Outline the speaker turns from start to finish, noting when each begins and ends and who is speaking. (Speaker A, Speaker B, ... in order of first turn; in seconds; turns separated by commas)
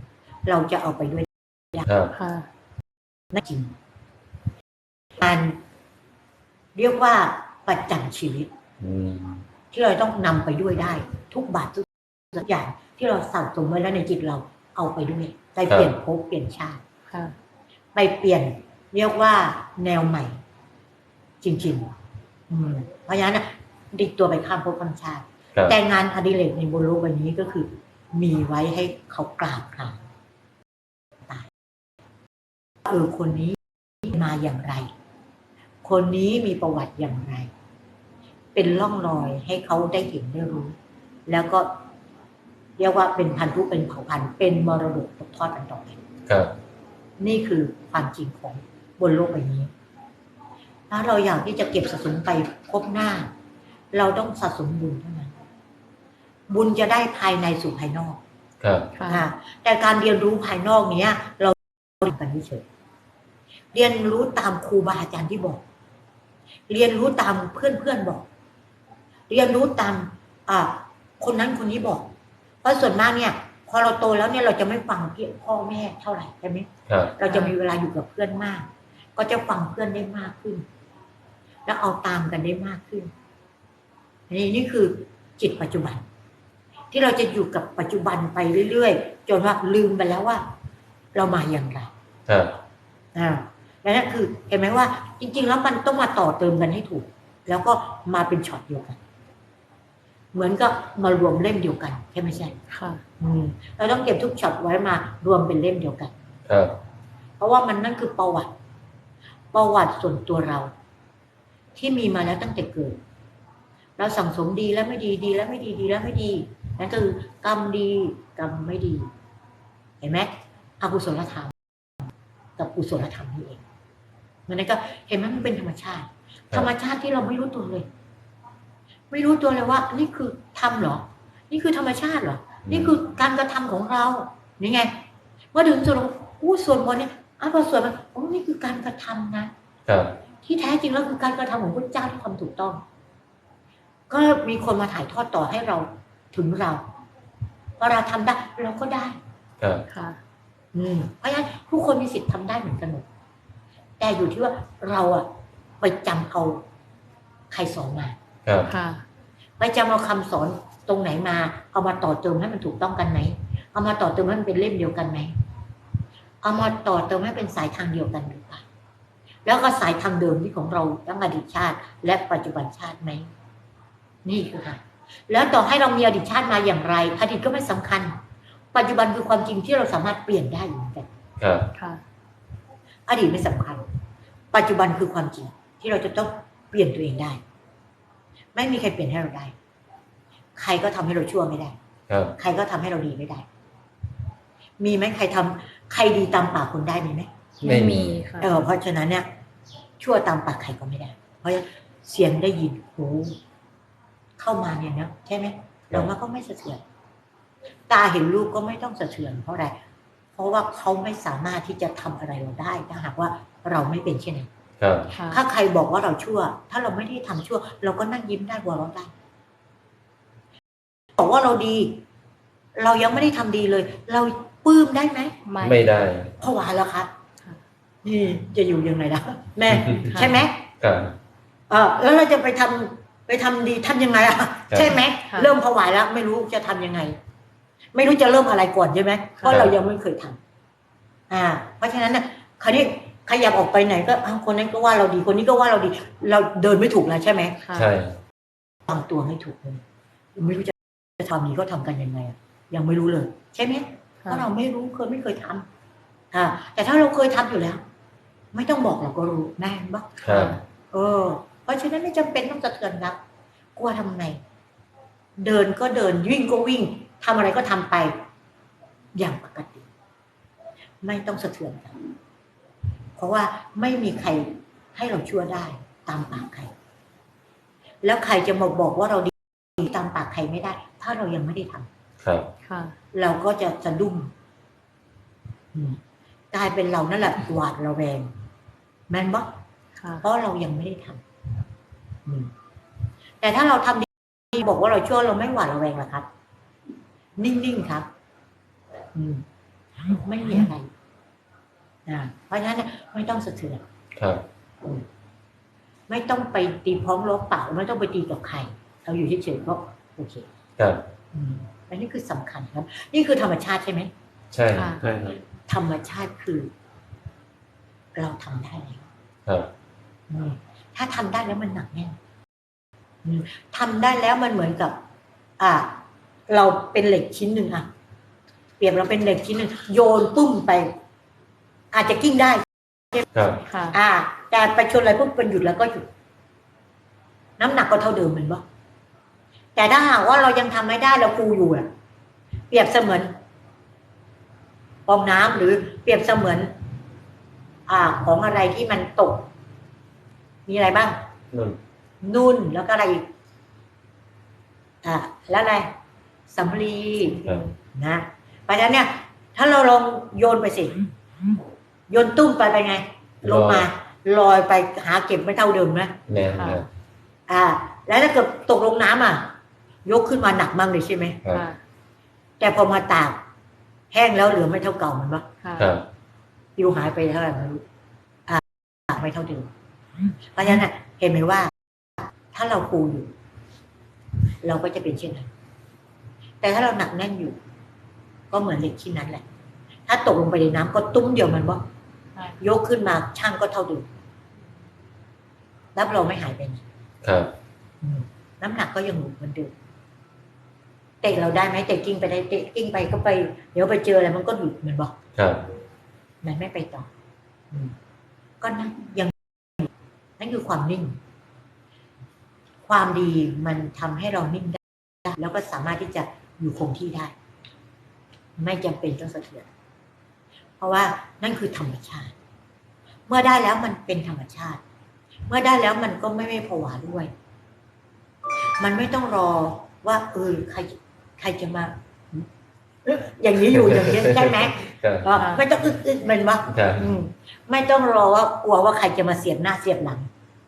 Speaker A: 0.5-1.9, Speaker B: 1.9-2.1, Speaker C: 2.1-2.5, Speaker A: 3.3-3.8, Speaker A: 5.2-5.6, Speaker A: 6.8-8.5, Speaker B: 8.8-9.5, Speaker A: 9.7-16.8, Speaker C: 17.1-17.4, Speaker A: 17.9-20.4, Speaker A: 21.4-21.9, Speaker A: 22.5-30.0, Speaker A: 32.9-34.9, Speaker A: 35.8-37.5, Speaker A: 38.5-40.8, Speaker A: 41.3-41.8, Speaker A: 42.8-46.0, Speaker B: 46.3-46.5, Speaker A: 47.2-49.7, Speaker A: 50.9-53.3, Speaker A: 53.9-55.4, Speaker A: 56.5-58.2, Speaker B: 58.6-58.9, Speaker C: 59.0-59.3, Speaker A: 59.1-62.7, Speaker A: 63.7-65.6, Speaker A: 66.7-68.3, Speaker A: 69.3-72.1, Speaker A: 72.6-80.6, Speaker B: 76.9-77.2, Speaker C: 77.3-77.5, Speaker A: 81.7-83.1, Speaker A: 84.3-86.0, Speaker A: 86.9-90.4, Speaker A: 91.2-91.9, Speaker B: 92.3-92.6, Speaker A: 93.2-99.0, Speaker A: 100.3-102.6, Speaker C: 102.7-103.0, Speaker A: 103.2-106.1, Speaker B: 106.5-106.8, Speaker A: 107.4-108.5, Speaker A: 109.5-110.7, Speaker A: 111.8-113.0, Speaker A: 114.0-119.1, Speaker A: 120.0-121.5, Speaker A: 122.6-123.6, Speaker A: 124.5-127.9, Speaker A: 129.1-135.0, Speaker B: 132.7-132.9, Speaker A: 135.5-139.5, Speaker B: 139.9-140.2, Speaker A: 140.4-142.8, Speaker A: 144.1-146.8, Speaker A: 147.8-149.2, Speaker B: 149.6-149.9, Speaker C: 149.9-150.2, Speaker A: 150.7-153.1, Speaker A: 154.0-155.3, Speaker A: 155.8-156.6, Speaker A: 157.5-158.2, Speaker B: 158.4-158.7, Speaker C: 158.7-159.0, Speaker A: 159.6-165.3, Speaker A: 166.4-168.7, Speaker A: 169.4-173.3, Speaker A: 174.2-178.2, Speaker A: 178.7-181.1, Speaker B: 181.4-181.7, Speaker C: 181.8-182.0, Speaker A: 183.1-183.8, Speaker A: 184.5-187.4, Speaker A: 188.6-189.5, Speaker A: 190.6-191.8, Speaker B: 192.1-192.4, Speaker A: 192.4-193.5, Speaker A: 194.8-197.3, Speaker C: 197.6-198.5, Speaker B: 197.6-198.2, Speaker A: 198.4-199.3, Speaker A: 200.0-203.4, Speaker A: 204.4-206.8, Speaker A: 207.9-209.8, Speaker A: 210.4-214.5, Speaker B: 214.8-215.1, Speaker C: 215.1-215.4, Speaker A: 215.3-219.1, Speaker A: 221.2-222.0, Speaker A: 222.8-225.3, Speaker C: 225.4-225.8, Speaker B: 225.6-226.3, Speaker A: 226.4-227.1, Speaker A: 228.0-230.7, Speaker B: 229.8-230.2, Speaker C: 230.1-230.4, Speaker B: 230.8-231.2, Speaker A: 231.7-237.2, Speaker B: 234.7-235.0, Speaker C: 235.3-235.5, Speaker A: 237.9-240.4, Speaker C: 239.4-239.7, Speaker B: 239.5-239.7, Speaker A: 241.3-247.6, Speaker C: 247.6-247.9, Speaker B: 247.7-248.2, Speaker A: 248.9-249.8, Speaker A: 250.4-255.7, Speaker A: 256.3-257.8, Speaker A: 258.5-263.2, Speaker C: 260.2-260.6, Speaker B: 260.2-260.6, Speaker A: 263.8-264.4, Speaker A: 265.4-268.2, Speaker A: 269.1-269.9, Speaker A: 271.0-272.1, Speaker A: 273.2-276.7, Speaker A: 278.0-281.9, Speaker B: 282.2-282.5, Speaker C: 282.6-283.0, Speaker A: 283.1-284.3, Speaker A: 285.7-286.0, Speaker A: 286.5-288.3, Speaker A: 289.1-289.5, Speaker C: 290.0-290.2, Speaker A: 290.2-291.2, Speaker A: 292.3-292.5, Speaker A: 293.4-296.3, Speaker A: 297.4-298.1, Speaker A: 299.1-299.4, Speaker A: 300.1-300.9, Speaker A: 302.1-303.8, Speaker B: 304.2-304.4, Speaker A: 306.1-310.5, Speaker B: 310.8-311.1, Speaker A: 311.3-314.1, Speaker B: 314.5-315.4, Speaker C: 314.7-315.1, Speaker A: 315.7-316.7, Speaker A: 318.1-319.1, Speaker B: 319.5-319.7, Speaker A: 320.3-322.2, Speaker A: 323.2-325.0, Speaker A: 325.6-327.9, Speaker A: 328.8-331.0, Speaker A: 331.9-333.3, Speaker B: 333.3-333.6, Speaker C: 333.7-334.0, Speaker A: 333.9-336.1, Speaker A: 337.6-338.6, Speaker A: 339.8-341.9, Speaker A: 342.7-343.4, Speaker A: 345.1-346.7, Speaker A: 347.9-349.5, Speaker A: 350.7-351.2, Speaker B: 351.5-351.8, Speaker A: 352.2-353.2, Speaker A: 355.0-355.9, Speaker A: 356.5-361.1, Speaker A: 362.1-366.2, Speaker B: 363.4-363.9, Speaker B: 366.3-366.9, Speaker C: 366.5-366.9, Speaker A: 367.5-371.4, Speaker C: 371.5-371.8, Speaker A: 372.6-373.4, Speaker A: 374.1-375.5, Speaker C: 375.6-375.9, Speaker B: 375.8-376.1, Speaker A: 376.8-377.8, Speaker A: 378.5-379.7, Speaker A: 380.5-381.7, Speaker A: 382.2-383.3, Speaker A: 384.6-385.5, Speaker A: 386.6-387.6, Speaker A: 388.5-389.4, Speaker A: 390.1-391.8, Speaker A: 392.6-394.1, Speaker A: 396.0-396.9, Speaker B: 397.2-397.6, Speaker A: 398.0-399.7, Speaker A: 401.2-405.1, Speaker B: 405.4-405.7, Speaker A: 406.4-407.1, Speaker A: 408.6-411.2, Speaker A: 412.9-417.4, Speaker A: 418.6-419.7, Speaker A: 420.8-422.3, Speaker A: 423.3-424.8, Speaker A: 425.5-427.3, Speaker A: 428.6-432.5, Speaker A: 433.1-440.3, Speaker B: 433.9-435.4, Speaker C: 435.4-435.7, Speaker B: 436.7-437.1